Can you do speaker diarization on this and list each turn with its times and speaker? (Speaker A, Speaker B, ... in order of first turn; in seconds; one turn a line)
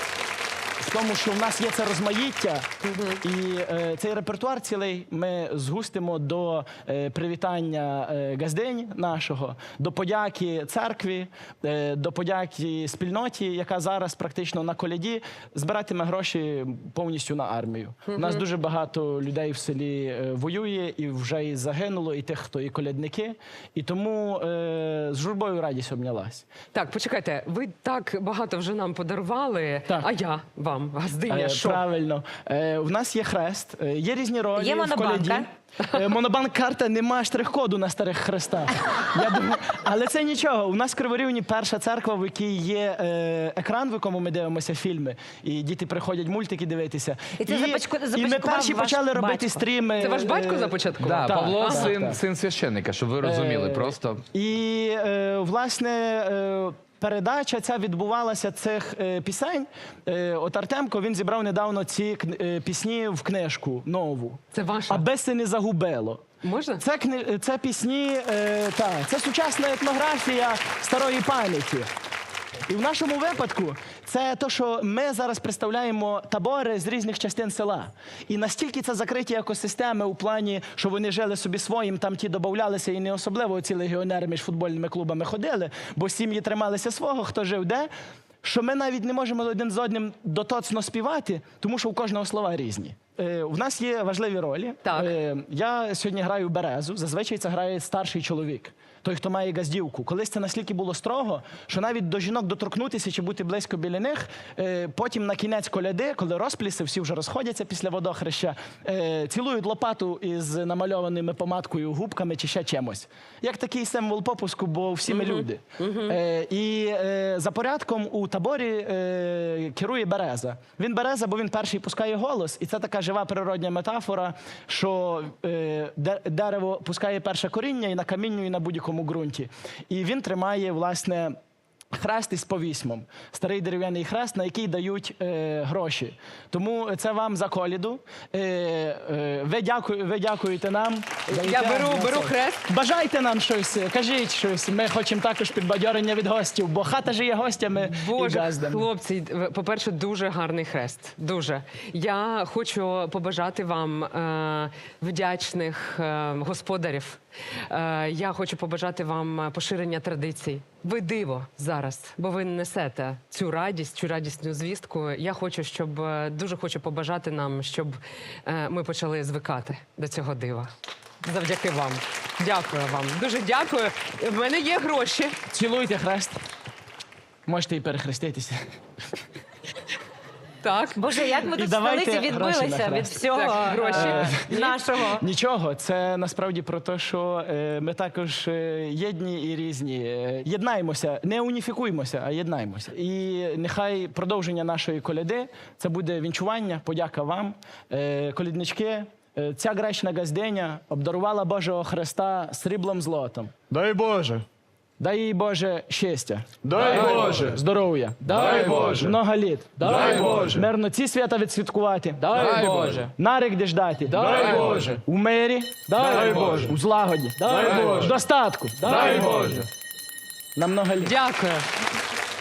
Speaker A: 0.8-26.4
Speaker B: 2.8-3.2
Speaker B: 18.1-18.4
Speaker B: 26.7-31.8
Speaker A: 31.3-52.2
Speaker C: 34.5-35.5
Speaker C: 47.4-49.6
Speaker B: 50.0-51.9
Speaker D: 51.0-54.2
Speaker A: 53.2-66.3
Speaker B: 64.5-65.0
Speaker B: 66.4-66.8
Speaker A: 66.8-71.9
Speaker A: 72.7-87.9
Speaker A: 88.4-131.4
Speaker B: 94.8-95.1
Speaker B: 115.1-116.2
Speaker A: 131.9-148.8
Speaker B: 141.3-142.7
Speaker B: 147.8-170.7
Speaker B: 171.2-175.4
Speaker A: 175.5-176.4
Speaker A: 177.4-178.6
Speaker B: 180.6-181.0
Speaker C: 181.0-185.2
Speaker A: 181.5-183.3
Speaker B: 183.3-184.8
Speaker A: 183.9-203.6
Speaker E: 203.7-204.4
Speaker A: 205.0-219.6
Speaker E: 206.6-207.6
Speaker E: 208.2-209.2
Speaker E: 209.8-210.7
Speaker E: 212.2-213.1
Speaker E: 214.1-215.0
Speaker E: 215.9-216.8
Speaker E: 217.3-218.2
Speaker E: 218.8-219.7
Speaker A: 220.5-221.1
Speaker B: 221.0-221.7